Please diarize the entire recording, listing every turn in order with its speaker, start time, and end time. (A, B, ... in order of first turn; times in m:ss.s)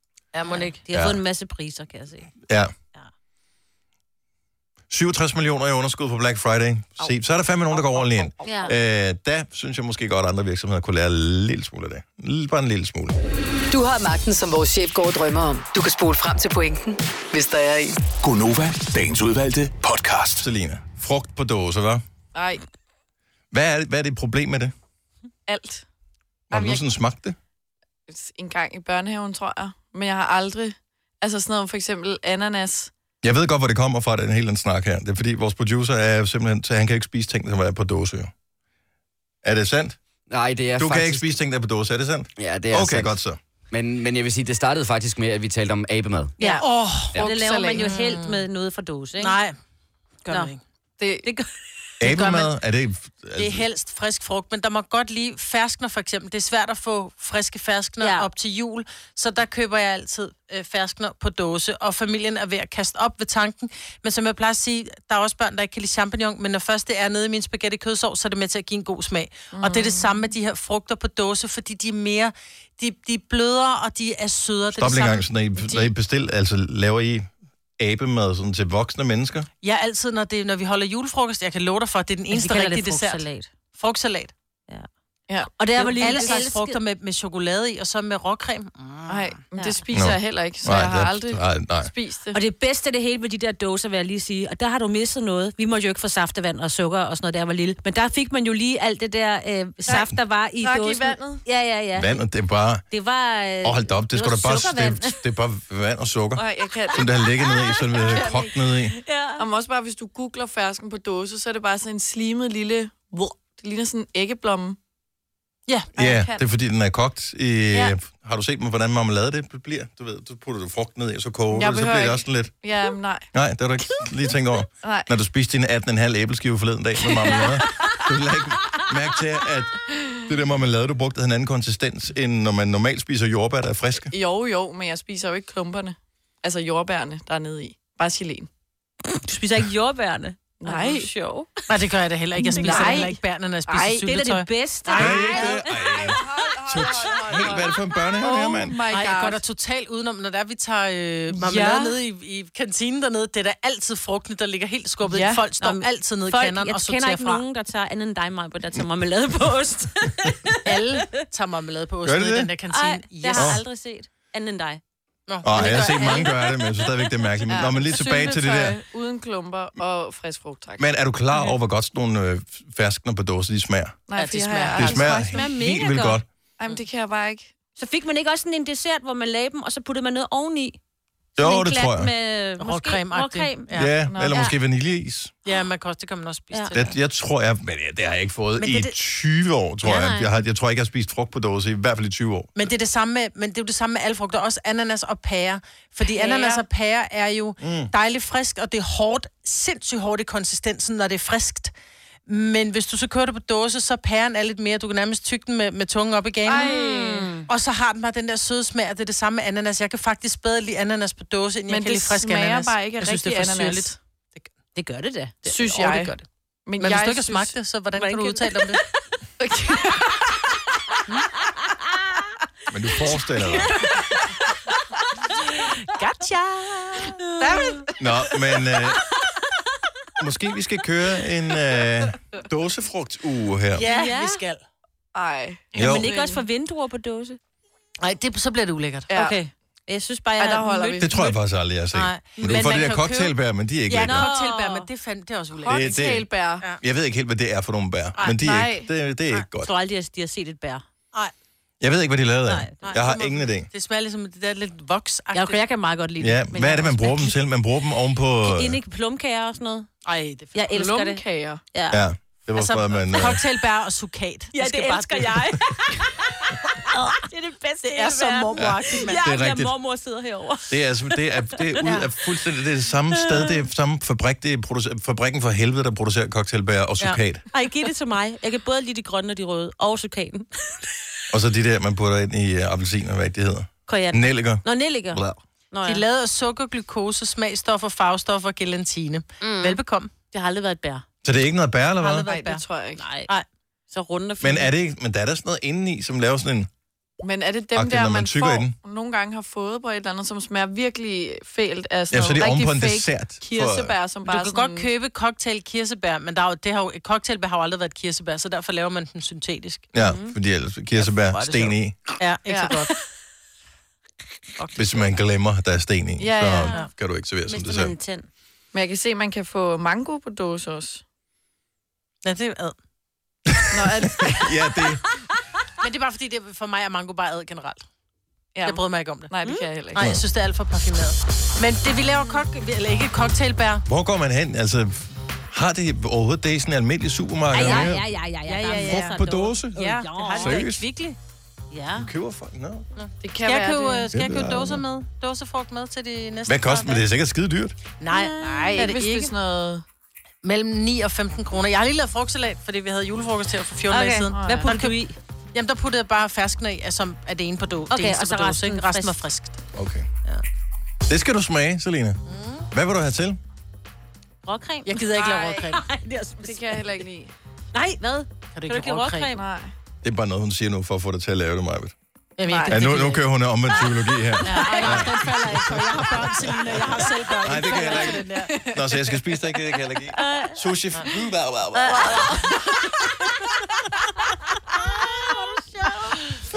0:00.3-0:00.8 A
0:00.5-0:02.3 B
0:00.9-0:01.2 C
0:02.5-0:02.7 C
0:04.9-0:13.2 C
0:07.7-0:08.7 D
0:08.4-0:08.7 B
0:13.7-0:18.0 E
0:18.2-0:20.4 F
0:20.4-0:22.0 C
0:22.3-0:22.6 D
0:23.5-0:24.7 C
0:25.5-0:25.8 D
0:26.5-0:27.4 C
0:26.5-0:26.8 D
0:28.1-0:32.9 D
0:33.2-0:38.3 C
0:39.4-0:40.0 C
0:40.3-0:41.2 G
0:40.8-0:43.4 C
0:42.4-0:43.2 G
0:43.7-0:46.3 G
0:46.4-0:47.8 D
0:46.4-0:49.4 B
0:46.6-0:47.2 A
0:47.7-0:48.4 A
0:49.2-0:49.6 A
0:50.2-0:50.6 A
0:51.0-0:51.3 D
0:52.0-0:52.5 A
0:52.0-0:53.6 C
0:53.4-1:15.2 A
0:58.0-0:58.3 B
1:09.5-1:10.1 D
1:14.8-1:19.5 C
1:19.6-1:24.3 A
1:22.3-1:23.5 B
1:25.3-1:26.5 D
1:25.6-1:26.8 B
1:26.0-1:29.3 A
1:29.1-1:32.4 D
1:29.9-1:31.9 C
1:32.3-1:42.2 B
1:39.9-1:41.4 D
1:42.0-1:42.8 C
1:42.9-1:45.2 B
1:43.6-1:49.0 C
1:46.4-1:47.2 D
1:47.9-1:49.4 B
1:47.9-1:48.5 D
1:49.4-1:54.8 D
1:56.0-1:56.4 D
1:56.0-2:02.5 C
2:01.5-2:03.3 D
2:03.3-2:14.1 C
2:04.8-2:05.1 D
2:14.1-2:18.5 D
2:19.1-2:21.6 B
2:20.6-2:21.1 D
2:21.7-2:25.5 A
2:22.4-2:23.2 B
2:22.5-2:23.1 D
2:23.7-2:24.0 D
2:23.7-2:25.9 B
2:24.9-2:29.4 D
2:24.9-2:28.8 C
2:28.9-2:37.4 A
2:31.4-2:31.8 B
2:35.1-2:41.0 B
2:40.6-2:43.6 A
2:42.0-2:42.5 C
2:42.7-2:44.8 B
2:43.3-2:43.6 C
2:45.3-2:46.3 A
2:45.4-2:48.8 C
2:45.5-2:47.1 B
2:47.5-2:50.9 D
2:50.8-2:54.0 C
2:54.1-2:55.5 D
2:54.2-2:55.2 A
2:54.7-2:56.2 C
2:55.2-2:56.2 B
2:56.6-2:57.5 D
2:57.8-3:00.8 B
3:01.4-3:02.1 C
3:01.4-3:04.5 B
3:02.6-3:03.9 A
3:03.7-3:05.3 C
3:04.0-3:04.4 D
3:05.4-3:06.9 A
3:06.7-3:12.7 C
3:08.6-3:08.9 A
3:09.8-3:10.4 B
3:12.6-3:21.7 A
3:16.2-3:16.6 D
3:17.6-3:17.9 C
3:22.3-3:26.8 A
3:26.5-3:27.3 D
3:26.6-3:27.5 B
3:27.5-3:34.5 A
3:31.7-3:34.0 D
3:34.8-3:35.4 B
3:35.4-3:36.2 A
3:35.4-3:36.1 D
3:36.6-3:37.5 D
3:36.8-3:38.8 A
3:38.0-3:38.8 B
3:39.4-3:40.4 D
3:42.7-3:43.8 C
3:45.6-3:48.0 A
3:47.2-3:47.9 B
3:48.0-3:49.0 C
3:50.2-3:53.8 C
3:53.7-3:54.6 A
3:53.8-3:54.4 B
3:55.1-3:56.4 D
3:55.7-3:56.1 C
3:55.7-3:57.4 B
3:58.0-3:59.1 A
3:59.1-3:59.4 D
3:59.1-4:01.3 B
4:00.4-4:01.2 D
4:01.0-4:04.3 C
4:01.9-4:03.3 A
4:02.4-4:02.8 B
4:03.9-4:06.0 A
4:04.0-4:04.9 B
4:05.6-4:06.6 D
4:05.7-4:06.3 C
4:06.8-4:09.7 C
4:08.2-4:08.9 D
4:09.6-4:10.8 B
4:11.8-4:13.7 C
4:12.5-4:12.8 B
4:12.8-4:15.6 A
4:15.3-4:17.4 B
4:16.2-4:18.8 C
4:18.4-4:19.9 B
4:20.0-4:20.5 A
4:20.5-4:22.0 B
4:20.7-4:21.6 D
4:21.9-4:23.4 C
4:22.7-4:25.6 A
4:24.5-4:31.6 B
4:27.9-4:29.2 A
4:28.6-4:29.7 C
4:30.7-4:37.4 C
4:31.8-4:32.1 A
4:33.2-4:33.6 B
4:37.5-4:40.8 B
4:41.3-4:45.4 C
4:43.9-4:46.0 B
4:45.8-4:50.1 A
4:49.4-4:51.0 B
4:51.2-4:52.3 C
4:52.0-4:52.6 A
4:52.3-4:53.0 D
4:53.0-4:53.3 B
4:53.9-4:54.7 B
4:54.4-4:56.7 C
4:57.2-5:04.9 D
4:57.7-4:58.7 C
5:02.1-5:03.9 C
5:04.2-5:09.9 A
5:09.9-5:12.0 C
5:10.0-5:10.3 B
5:11.0-5:12.9 A
5:12.5-5:12.8 D
5:14.6-5:15.1 A
5:14.8-5:18.0 C
5:16.2-5:16.7 D
5:17.4-5:18.3 B
5:18.7-5:21.0 D
5:22.2-5:22.8 A
5:23.5-5:25.0 C
5:23.7-5:24.4 D
5:25.8-5:27.8 A
5:28.5-5:30.0 D
5:28.6-5:29.3 A
5:29.9-5:33.8 A
5:33.9-5:38.0 C
5:37.5-5:40.6 B
5:37.6-5:39.2 A
5:38.9-5:40.8 C
5:39.7-5:41.2 A
5:41.7-5:42.1 B
5:41.9-5:42.8 C
5:42.9-5:47.0 A
5:43.2-5:44.1 D
5:44.1-5:44.8 C
5:46.4-5:47.8 C
5:48.0-5:49.3 A
5:48.1-5:49.2 B
5:48.7-5:49.8 D
5:50.4-5:55.0 A
5:53.9-5:55.2 B
5:54.3-5:54.6 D
5:55.5-5:59.6 A
5:57.9-5:59.2 B
5:59.7-6:00.1 C
6:01.1-6:02.2 C
6:02.3-6:02.7 A
6:02.7-6:03.4 C
6:04.4-6:06.9 B
6:04.8-6:05.8 A
6:05.1-6:05.6 D
6:06.4-6:07.3 D
6:07.7-6:09.4 B
6:08.5-6:09.4 A
6:09.3-6:09.7 D
6:10.0-6:11.9 C
6:12.4-6:13.2 A
6:12.5-6:12.8 D
6:12.7-6:22.4 C
6:13.7-6:15.0 D
6:14.4-6:18.5 A
6:14.7-6:15.0 B
6:18.2-6:19.2 D
6:20.1-6:20.6 B
6:21.8-6:22.5 B
6:22.0-6:22.6 D
6:25.0-6:26.1 A